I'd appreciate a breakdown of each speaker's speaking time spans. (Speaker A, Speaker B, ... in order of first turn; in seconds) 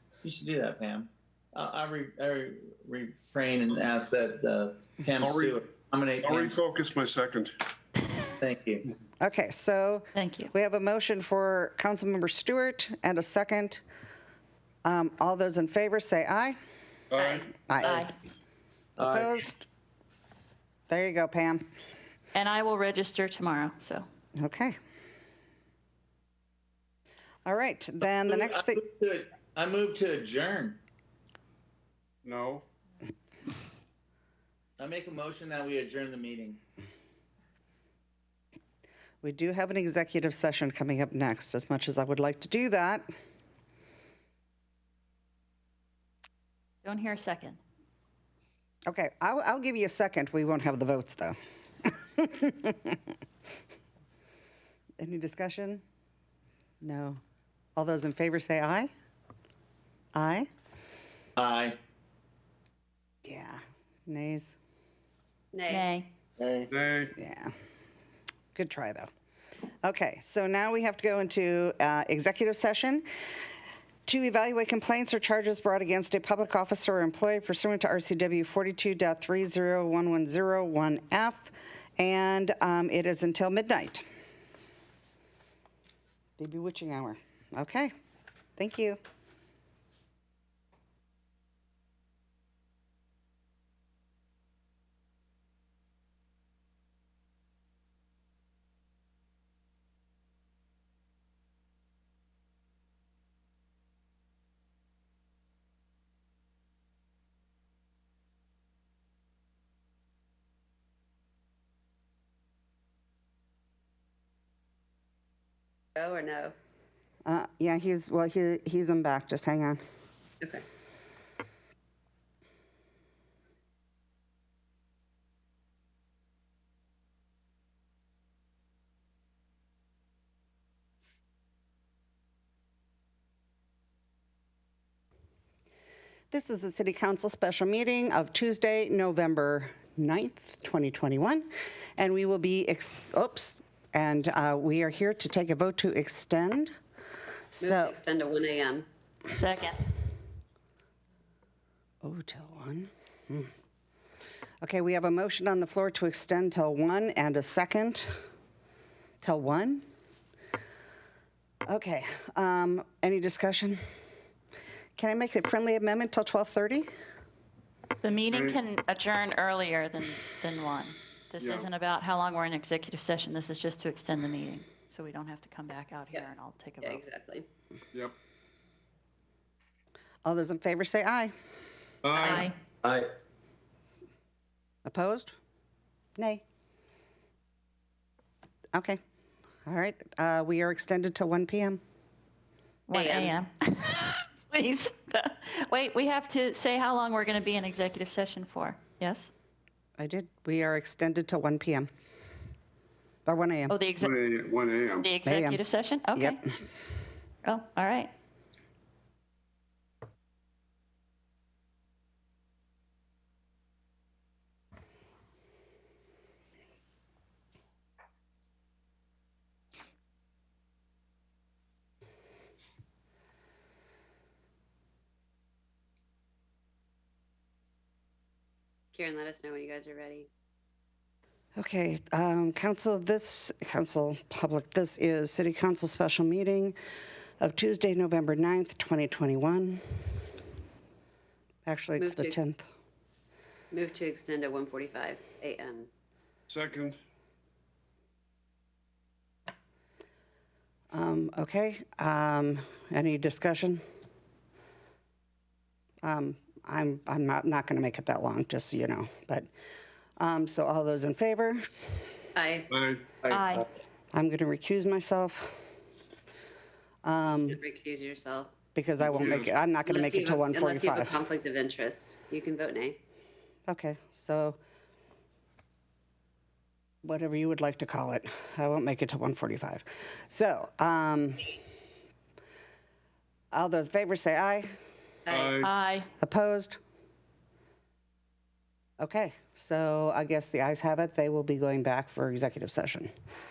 Speaker A: 0.2-6.6, 8.4-8.9, 19.0-19.4, 28.0-30.8, 34.8-36.6, 61.4-61.8, 66.4-66.7, 182.8-183.1, 263.2-263.6
Speaker B: 5.2-5.6, 6.2-7.5, 17.1-17.5, 32.2-32.6, 66.7-67.1, 168.3-168.6, 171.4-171.7, 182.0-182.5, 204.0-205.1, 246.5-247.0, 262.7-263.1, 269.0-269.5, 285.3-285.7
Speaker C: 9.2-13.8, 14.8-16.6, 17.7-18.1, 19.0-19.6, 20.9-21.6, 24.4-24.7, 27.4-28.8, 39.2-43.0, 48.9-53.0, 55.0-55.8, 56.8-57.2, 57.8-58.9, 60.1-60.5, 63.2-64.6, 67.2-67.5, 68.5-69.1, 69.8-73.0, 74.1-84.0, 86.4-87.9, 88.6-89.0, 117.2-119.8, 136.3-146.7, 147.6-147.9, 152.0-153.5, 154.6-158.1, 159.2-159.8, 161.7-163.8, 165.0-166.9, 180.2-181.3, 184.8-185.3, 186.2-186.4, 188.7-189.0, 189.7-191.8, 200.0-201.9, 203.2-203.8, 205.2-205.6, 231.6-236.8, 237.4-239.8, 241.7-242.6, 250.9-253.8, 256.0-259.5, 260.2-261.7, 264.1-265.7, 267.0-267.6, 268.7-271.1, 273.7-274.6, 277.0-281.6, 283.5-284.7, 286.2-286.8, 289.0-293.1
Speaker D: 10.1-10.5, 17.8-18.1, 22.3-24.1, 46.8-47.6, 65.7-66.1, 149.3-149.8, 168.0-177.0, 182.2-182.6, 192.9-199.3, 203.7-204.2, 205.0-206.4, 207.4-208.1, 263.3-263.6, 285.6-286.1
Speaker E: 17.2-17.5, 65.5-65.9, 116.0-116.5, 147.6-148.8, 176.8-177.4, 182.2-182.5, 192.9-193.3, 228.9-230.3, 242.0-242.4, 243.7-245.9, 262.4-262.7, 267.3-268.5, 269.9-273.0, 285.3-285.6